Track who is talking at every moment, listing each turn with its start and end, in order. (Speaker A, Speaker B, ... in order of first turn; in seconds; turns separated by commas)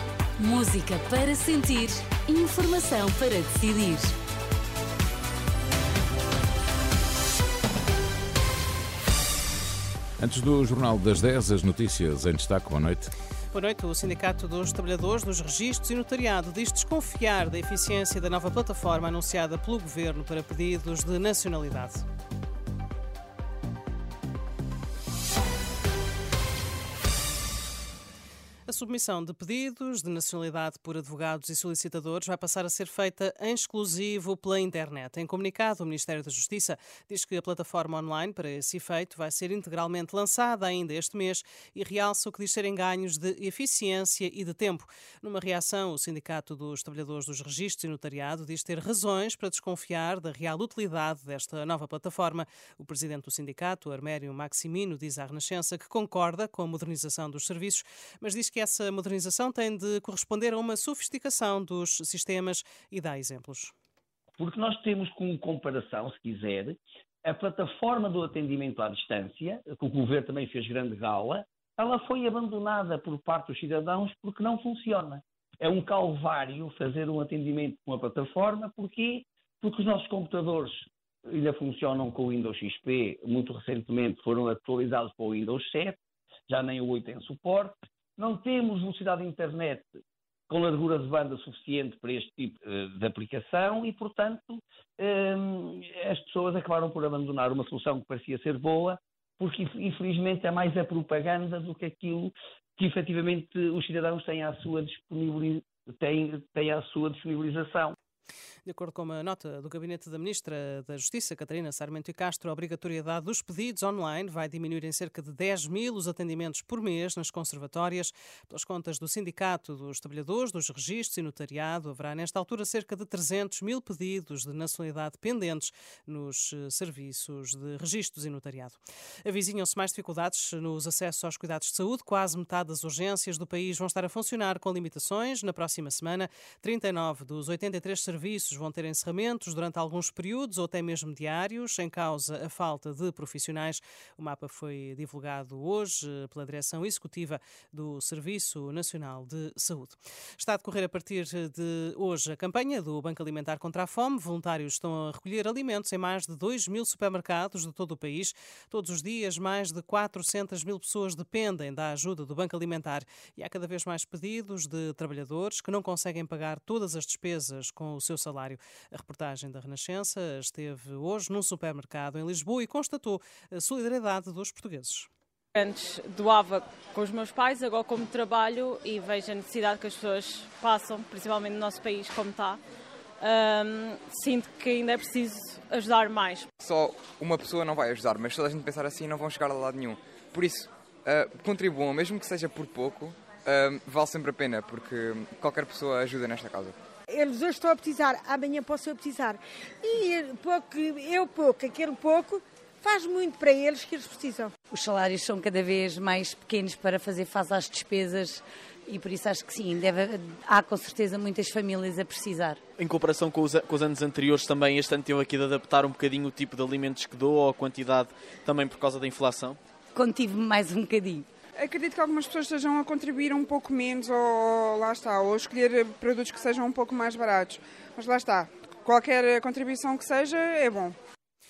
Speaker A: 0.4-4.1, Speaker B: 10.2-13.1, Speaker C: 13.5-22.0, Speaker C: 28.7-63.7, Speaker D: 64.4-107.9, Speaker C: 108.7-175.1, Speaker E: 175.5-182.6, Speaker E: 183.2-186.5, Speaker F: 186.6-196.8, Speaker G: 197.1-204.5, Speaker H: 204.7-212.6, Speaker I: 212.8-219.6, Speaker H: 219.9-221.2, Speaker J: 221.6-230.9